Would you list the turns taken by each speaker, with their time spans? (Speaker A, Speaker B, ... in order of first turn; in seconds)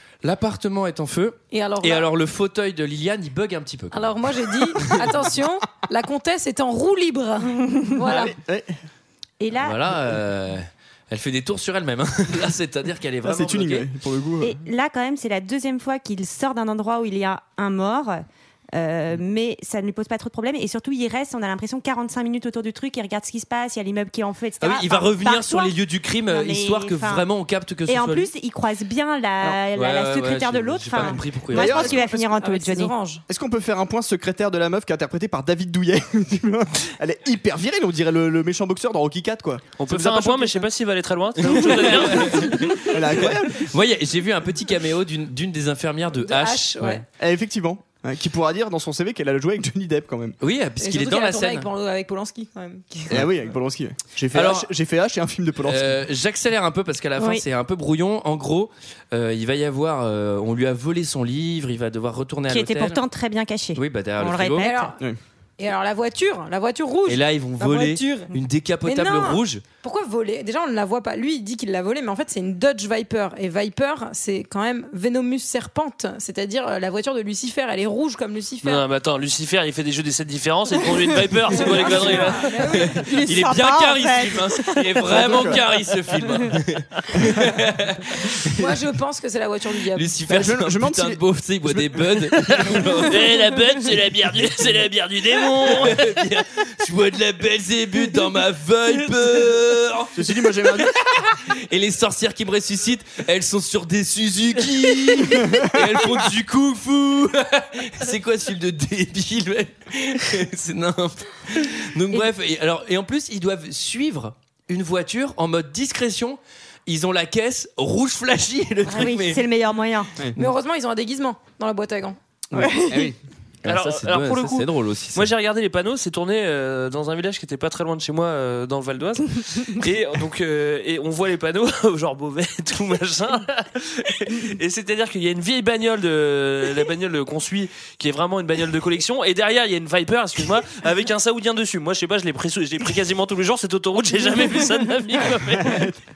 Speaker A: 0.2-4.2, 9.6-13.9, 24.6-28.3, 29.7-31.9, 41.5-47.0, 50.4-51.7, 54.3-54.7, 55.6-63.0, 63.8-64.7, 67.1-69.6, 82.7-88.7, 90.0-93.4, 95.7-119.4, 123.6-125.3
Speaker B: 1.5-2.1, 3.9-8.3, 31.7-33.2, 46.1-47.0, 50.8-53.3, 64.6-65.0, 65.6-68.3, 68.8-78.8, 81.6-83.0, 88.5-90.2, 120.4-122.2
Speaker C: 8.1-8.8, 13.2-14.6, 31.0-32.3, 33.3-40.7, 41.5-42.3, 42.8-43.7, 47.2-50.4, 53.1-56.0, 85.1-85.6, 90.3-93.0, 100.2-101.0, 105.3-105.7, 122.5-123.2, 145.6-146.0
Speaker D: 9.4-9.8, 14.4-18.2, 18.8-27.3, 27.9-32.9, 57.2-57.4, 62.5-65.0, 82.9-85.3, 118.9-120.1, 122.5-123.1
Speaker E: 39.8-42.9, 78.6-82.5, 93.1-96.2, 123.7-145.9